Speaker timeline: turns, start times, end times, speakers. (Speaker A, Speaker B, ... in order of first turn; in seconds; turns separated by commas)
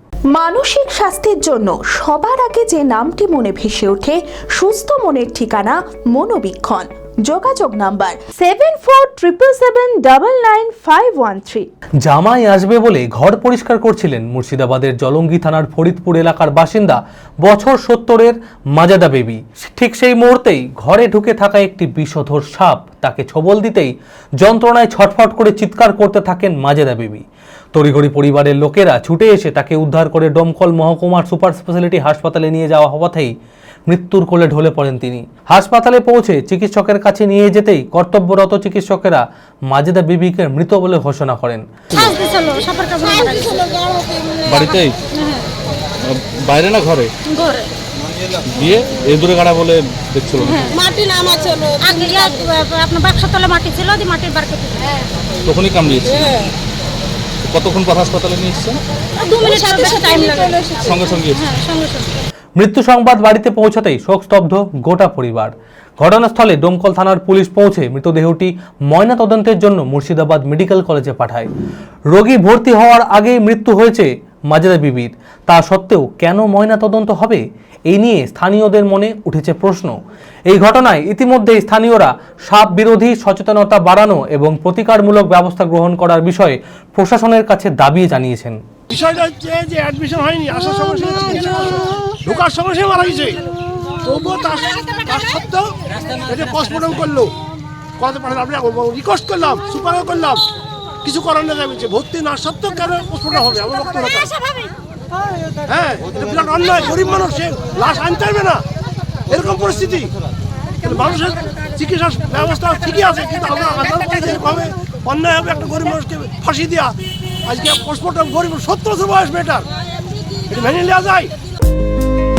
Speaker A: 0.3-11.7, Speaker B: 12.0-33.3, Speaker B: 33.9-41.6, Speaker C: 41.9-44.0, Speaker D: 44.5-45.0, Speaker C: 45.1-45.5, Speaker D: 46.0-47.1, Speaker C: 47.3-47.7, Speaker D: 48.5-50.8, Speaker C: 51.6-55.0, Speaker D: 55.5-56.5, Speaker D: 57.5-58.8, Speaker C: 59.2-60.7, Speaker D: 60.7-61.4, Speaker C: 61.3-62.1, Speaker B: 62.6-71.5, Speaker B: 72.1-80.0, Speaker B: 80.5-88.6, Speaker E: 88.9-93.4, Speaker E: 94.0-97.3, Speaker E: 98.0-100.4, Speaker E: 101.0-104.3, Speaker E: 105.7-108.6, Speaker E: 109.3-110.1, Speaker E: 110.8-119.7, Speaker E: 120.5-121.3